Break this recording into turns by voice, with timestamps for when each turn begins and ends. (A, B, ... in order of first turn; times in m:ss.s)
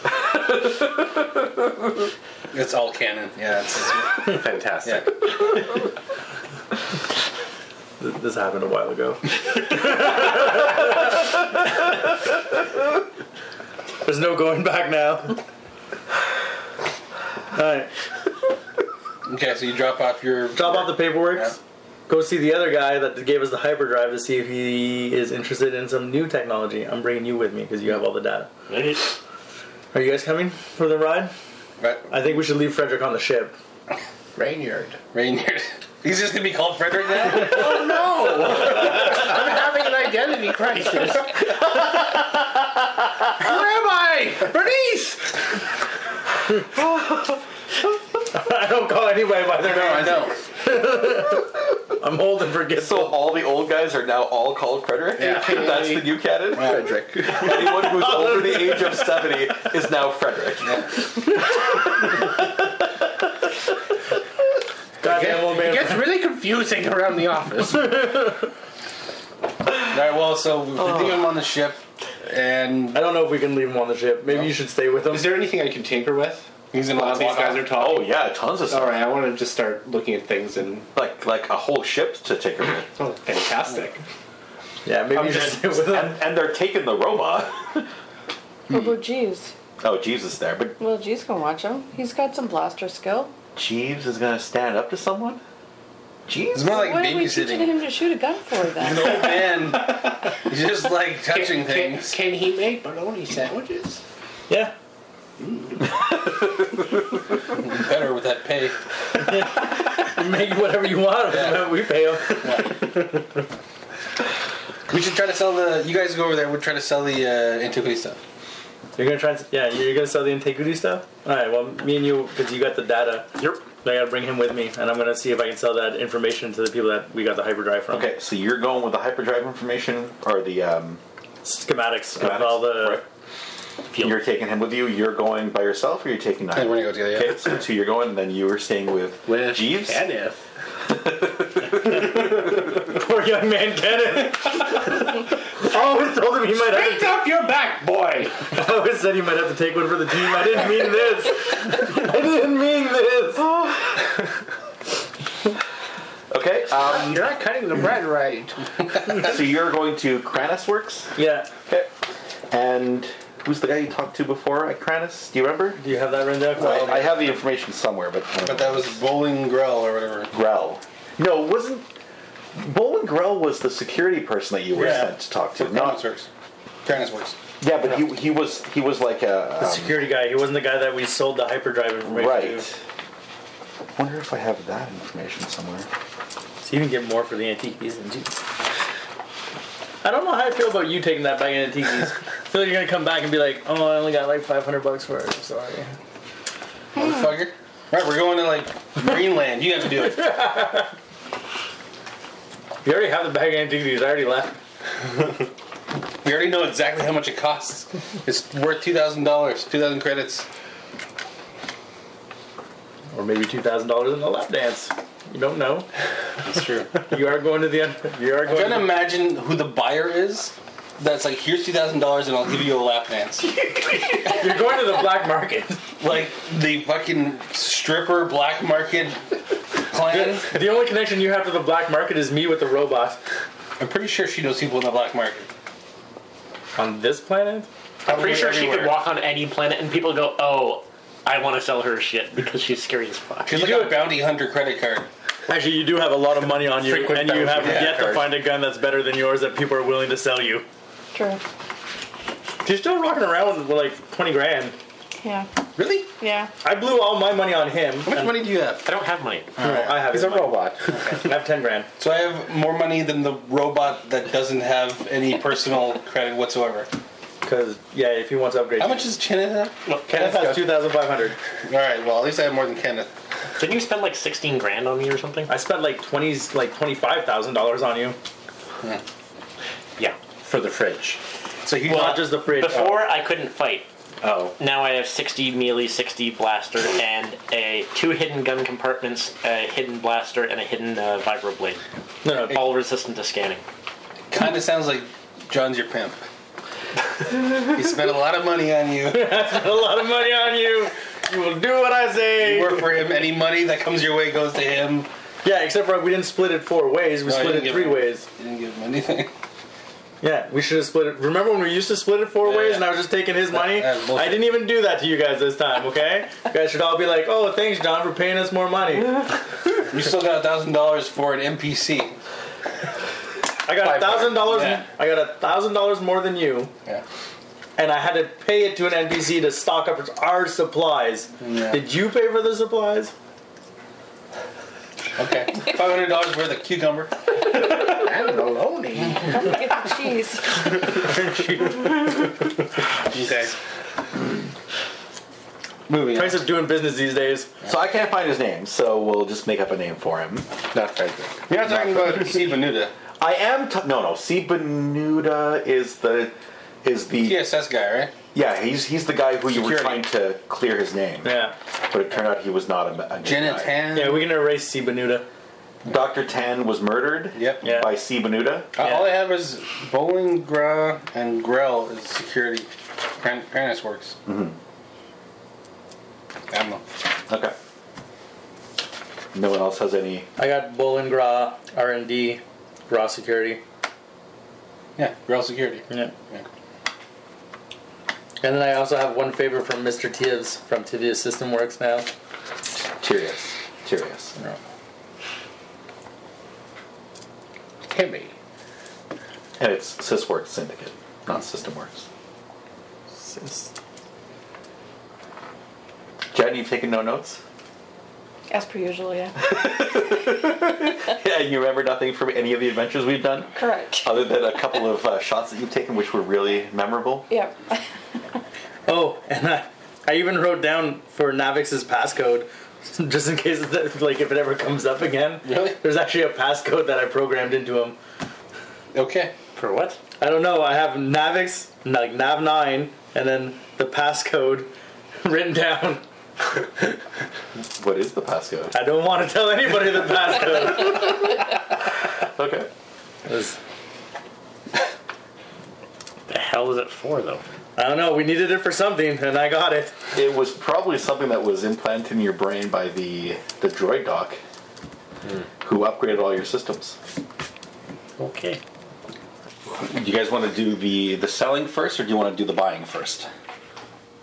0:00.4-0:01.0 A
0:02.5-0:05.2 B
0:04.2-0:05.2 C
0:08.0-0:11.1 D
0:14.0-0:15.4 D
0:17.5-0:17.9 D
0:19.3-0:21.6 B
0:20.6-0:28.5 D
0:28.7-0:29.1 E
0:29.9-0:31.3 D
0:31.8-0:32.1 B
0:32.1-0:33.6 D
0:34.4-0:35.0 C
0:35.1-0:37.8 B
0:37.3-0:41.8 C
0:43.3-0:45.4 C
0:48.3-0:51.5 D
0:49.6-0:50.4 B
0:52.0-0:53.2 D
0:52.7-1:02.3 A
0:55.2-0:55.8 B
0:55.2-0:57.8 C
0:56.5-0:56.9 B
0:58.0-0:59.0 D
1:05.0-1:06.1 D
1:05.0-1:08.1 C
1:09.9-1:13.0 B
1:12.9-1:15.5 D
1:15.1-1:18.2 C
1:16.7-1:17.7 B
1:17.7-1:19.0 A
1:18.7-1:20.9 C
1:20.9-1:22.9 A
1:23.0-1:24.0 C
1:24.8-1:26.2 D
1:25.1-1:27.9 A
1:28.7-1:29.5 F
1:29.8-1:30.8 A
1:30.8-1:33.3 F
1:33.6-1:35.4 A
1:36.3-1:36.8 A
1:36.5-1:37.8 B
1:36.7-1:39.2 F
1:38.8-1:42.2 B
1:41.3-1:44.0 C
1:44.5-1:44.7 D
1:45.4-1:45.7 C
1:47.6-1:48.8 B
1:49.2-1:52.7 D
1:51.3-1:51.7 B
1:52.3-1:52.8 B
1:54.9-1:58.2 B
1:59.0-2:08.1 D
2:03.4-2:03.6 E
2:07.9-2:11.0 A
2:11.4-2:13.0 D
2:12.2-2:13.0 A
2:13.9-2:14.2 E
2:14.0-2:20.0 A
2:16.5-2:17.6 B
2:19.3-2:20.4 C
2:20.9-2:22.1 A
2:22.2-2:27.2 D
2:26.6-2:28.5 C
2:28.5-2:33.5 D
2:33.4-2:34.1 A
2:36.3-2:37.2 A
2:36.8-2:38.7 C
2:39.1-2:41.1 A
2:41.2-2:41.5 D
2:42.5-2:45.8 A
2:45.8-2:47.3 D
2:46.6-2:49.0 A
2:48.4-2:50.3 B
2:50.3-2:51.9 A
2:52.6-2:56.0 A
2:54.8-2:56.3 B
2:56.8-2:57.4 B
2:57.6-3:00.0 A
2:59.6-3:02.7 D
3:02.1-3:02.8 A
3:04.0-3:05.9 A
3:06.6-3:08.4 D
3:10.0-3:15.9 D
3:17.0-3:20.4 B
3:20.2-3:20.9 D
3:22.8-3:24.6 D
3:26.2-3:30.5 B
3:33.1-3:35.9 D
3:36.4-3:37.0 B
3:37.1-3:38.9 D
3:38.4-3:43.9 B
3:44.2-3:45.8 D
3:46.0-3:50.6 B
3:50.0-3:53.2 D
3:53.8-3:55.5 B
3:56.8-3:57.7 D
3:58.1-3:59.0 B
3:58.1-4:03.8 E
4:03.5-4:05.1 B
4:03.5-4:04.1 D
4:05.5-4:10.6 D
4:06.7-4:08.3 C
4:07.6-4:08.0 B
4:11.1-4:11.4 F
4:12.6-4:14.8 D
4:15.2-4:15.5 F
4:15.8-4:16.1 B
4:16.2-4:16.5 F
4:16.6-4:18.5 D
4:18.1-4:18.9 B
4:18.8-4:19.6 E
4:19.6-4:20.0 B
4:19.6-4:21.9 D
4:19.9-4:21.0 C
4:20.9-4:21.3 B
4:22.0-4:26.9 B
4:27.4-4:29.0 D
4:28.8-4:29.8 B
4:29.9-4:30.3 E
4:30.1-4:31.4 D
4:31.7-4:33.1 B
4:33.6-4:35.5 E
4:35.5-4:38.2 D
4:40.3-4:41.2 C
4:41.6-4:42.3 B
4:41.8-4:43.0 D
4:41.9-4:43.9 E
4:44.2-4:44.5 A
4:44.6-4:51.8 E
4:52.2-4:52.6 D
4:52.4-4:53.6 E
4:54.3-4:56.2 B
4:57.4-4:59.4 B
4:59.1-5:02.9 D
5:02.4-5:05.1 B
5:05.4-5:08.3 D
5:07.2-5:09.3 B
5:10.2-5:19.3 D
5:12.4-5:12.9 B
5:13.5-5:14.5 B
5:19.9-5:22.2 B
5:23.6-5:26.7 D
5:23.8-5:24.8 B
5:27.8-5:33.1 D
5:31.4-5:31.8 B
5:35.2-5:37.2 B
5:37.8-5:39.4 C
5:39.2-5:40.6 F
5:43.1-5:43.5 B
5:45.9-5:46.5 B
5:46.1-5:47.5 D
5:47.6-5:50.5 A
5:50.7-5:51.5 C
5:51.5-5:52.9 B
5:51.6-5:52.2 A
5:53.2-5:57.5 A
5:57.2-5:58.1 B
5:58.3-6:03.8 A
5:59.5-6:00.1 B
6:01.2-6:01.6 D
6:03.2-6:04.3 B
6:03.9-6:05.2 D
6:05.8-6:08.8 A
6:07.4-6:07.6 B
6:07.6-6:07.9 D
6:08.8-6:14.2 B
6:08.8-6:09.1 D
6:14.3-6:14.6 A
6:16.5-6:16.8 B
6:17.3-6:17.6 A
6:19.3-6:20.3 A
6:20.4-6:23.6 D
6:25.0-6:26.4 B
6:28.4-6:32.1 D
6:32.8-6:34.3 A
6:37.9-6:38.3 C
6:39.6-6:42.1 A
6:43.2-6:43.7 D
6:46.3-6:47.4 A
6:48.5-6:49.5 F
6:49.4-6:57.3 A
6:53.6-6:54.2 F
6:57.3-6:57.8 F
6:58.9-7:08.0 D
7:05.4-7:05.8 B
7:08.9-7:09.3 B
7:09.6-7:10.0 E
7:10.2-7:16.0 D
7:17.6-7:18.8 A
7:18.7-7:21.3 D
7:22.2-7:22.7 A
7:23.3-7:23.6 D
7:26.3-7:27.4 E
7:27.8-7:30.0 D
7:30.1-7:34.4 A
7:35.6-7:37.0 A
7:38.2-7:38.6 E
7:39.7-7:43.3 A